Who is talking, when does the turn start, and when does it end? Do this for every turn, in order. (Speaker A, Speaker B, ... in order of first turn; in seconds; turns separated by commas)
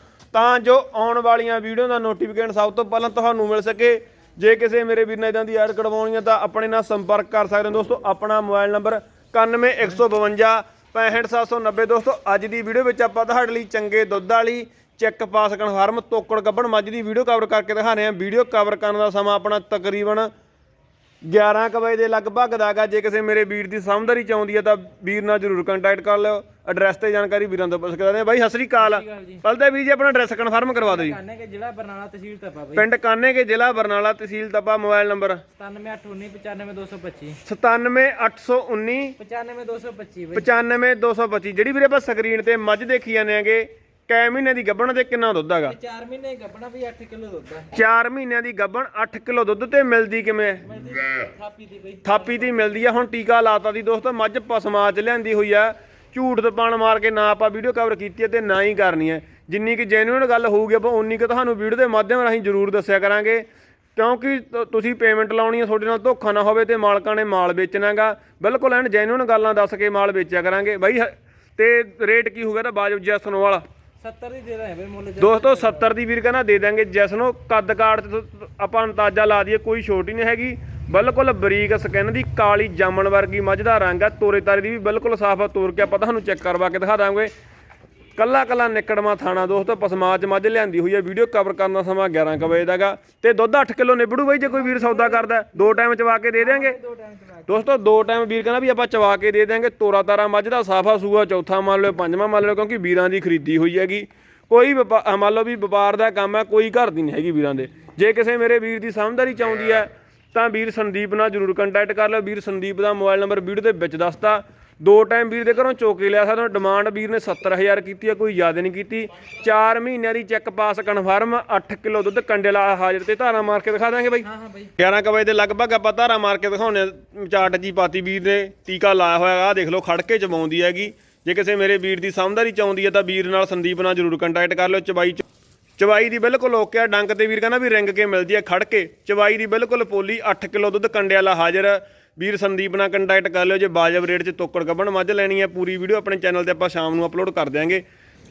Speaker A: 0.3-20.3, Speaker A: 21.2-31.2, Speaker B: 28.8-29.4, Speaker B: 30.8-32.9, Speaker A: 32.7-35.4, Speaker B: 35.5-37.4, Speaker A: 37.4-39.2, Speaker B: 39.2-40.5, Speaker A: 40.3-45.8, Speaker B: 45.6-47.7, Speaker A: 47.7-50.6, Speaker B: 50.6-52.9, Speaker A: 52.0-63.4, Speaker A: 64.0-73.6, Speaker B: 74.0-75.9, Speaker A: 75.2-87.3, Speaker A: 88.2-96.7, Speaker B: 94.4-95.8, Speaker B: 96.4-97.7, Speaker A: 97.5-124.3, Speaker B: 124.2-124.7, Speaker A: 124.8-135.2, Speaker A: 135.8-147.8